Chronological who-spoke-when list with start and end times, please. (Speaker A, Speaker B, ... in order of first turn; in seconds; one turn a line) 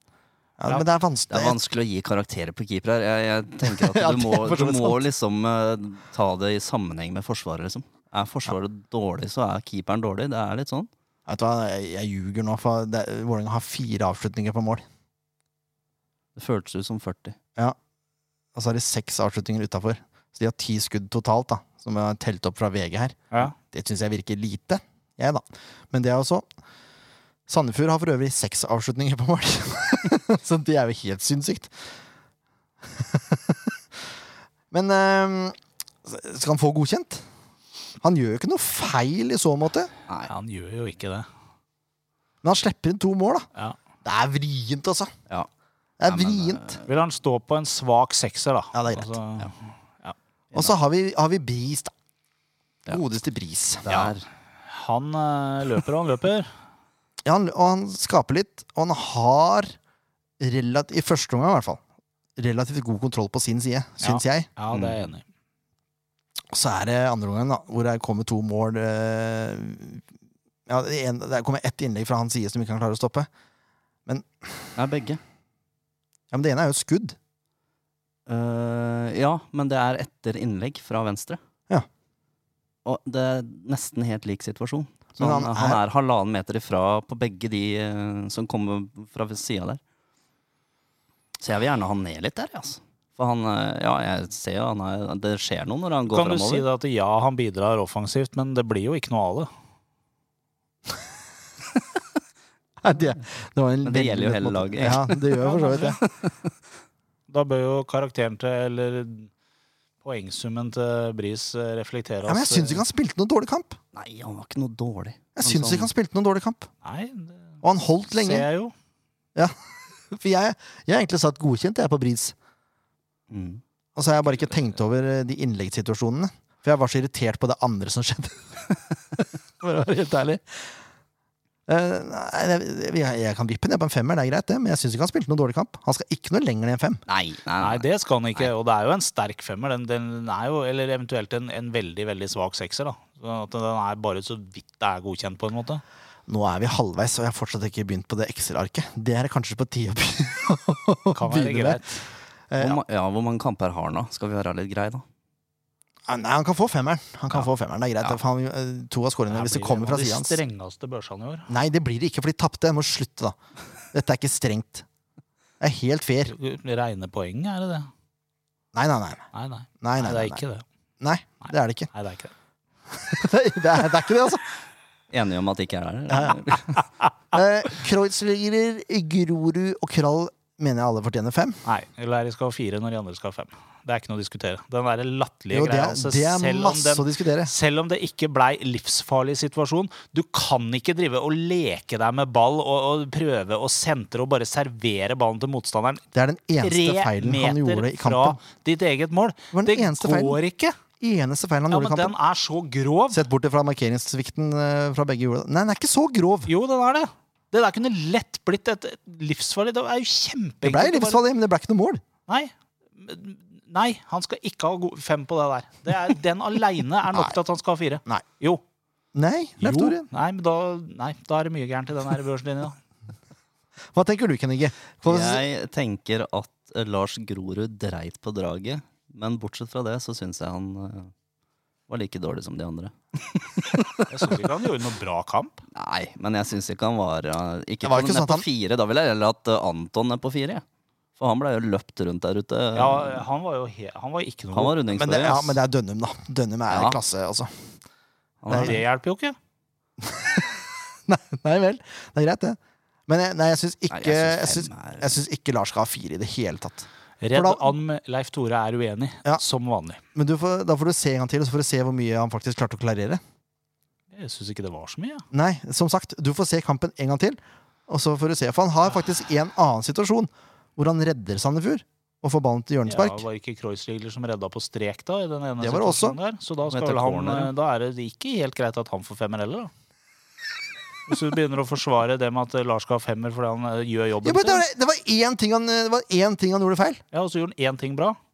Speaker A: 0.6-1.6
Speaker B: 1.3-10.9
Speaker A: 3.6-5.0
Speaker A: 11.3-14.8
Speaker B: 16.4-17.4
Speaker A: 18.5-26.4
Speaker A: 27.5-31.7
Speaker A: 32.9-33.7
Speaker A: 34.7-37.2
Speaker A: 38.0-39.9
Speaker C: 40.2-41.3
Speaker A: 42.4-43.5
Speaker A: 44.0-45.1
Speaker A: 46.0-46.8
Speaker B: 46.0-46.8
Speaker C: 46.9-50.1
Speaker A: 48.7-49.1
Speaker A: 50.5-51.9
Speaker A: 52.9-54.0
Speaker B: 53.9-54.2
Speaker C: 54.7-56.5
Speaker A: 57.2-59.8
Speaker A: 60.4-61.8
Speaker A: 62.4-64.5
Speaker C: 64.0-65.2
Speaker B: 64.7-65.0
Speaker A: 66.5-70.0
Speaker A: 70.7-73.3
Speaker A: 74.1-74.7
Speaker B: 74.8-75.2
Speaker A: 76.3-77.2
Speaker B: 78.3-81.4
Speaker B: 82.8-89.8
Speaker A: 85.2-85.8
Speaker B: 91.4-96.7
Speaker C: 96.1-99.5
Speaker A: 102.8-106.0
Speaker B: 103.8-106.5
Speaker C: 105.4-106.0
Speaker C: 107.3-109.3
Speaker C: 110.0-112.8
Speaker A: 112.2-113.8
Speaker B: 113.9-115.9
Speaker A: 115.4-116.7
Speaker C: 116.8-118.7
Speaker A: 117.6-118.5
Speaker A: 120.1-122.3
Speaker B: 123.3-123.6
Speaker A: 124.0-130.7
Speaker A: 131.7-137.0
Speaker B: 137.1-137.8
Speaker C: 137.6-145.8
Speaker A: 146.3-151.9
Speaker C: 151.1-152.0
Speaker A: 152.5-152.8
Speaker B: 152.6-155.0
Speaker A: 156.1-160.4
Speaker C: 159.3-161.5
Speaker A: 161.5-163.4
Speaker A: 163.9-164.8
Speaker A: 165.6-166.3
Speaker C: 166.3-167.9
Speaker A: 168.7-169.2
Speaker C: 169.3-170.6
Speaker A: 169.8-170.4
Speaker A: 171.0-171.9
Speaker C: 171.4-172.3
Speaker A: 172.9-174.4
Speaker B: 175.1-176.7
Speaker A: 176.1-176.4
Speaker A: 177.3-181.6
Speaker C: 181.6-196.0
Speaker A: 185.5-187.5
Speaker A: 196.1-198.4
Speaker C: 196.6-200.8
Speaker A: 199.5-200.4
Speaker A: 201.0-202.1
Speaker C: 201.7-203.2
Speaker A: 203.1-206.5
Speaker C: 206.5-211.2
Speaker A: 210.6-212.0
Speaker C: 212.3-218.6
Speaker A: 219.1-220.0
Speaker C: 219.6-222.8
Speaker A: 223.9-225.4
Speaker B: 225.1-231.1
Speaker B: 231.9-234.1
Speaker C: 234.1-235.6
Speaker B: 235.7-240.6
Speaker A: 237.8-238.4
Speaker B: 241.2-243.2
Speaker C: 242.7-244.8
Speaker B: 244.5-245.6
Speaker A: 244.9-247.5
Speaker B: 246.7-247.0
Speaker B: 248.4-248.8
Speaker A: 248.5-248.8
Speaker C: 248.5-249.3
Speaker A: 250.0-257.7
Speaker B: 253.9-255.1
Speaker C: 257.2-260.0
Speaker A: 260.1-263.2
Speaker C: 264.1-265.2
Speaker A: 265.3-273.2
Speaker C: 272.9-279.7
Speaker A: 275.6-276.2
Speaker B: 276.6-277.5
Speaker C: 281.1-284.6
Speaker A: 284.2-287.0
Speaker C: 287.1-288.2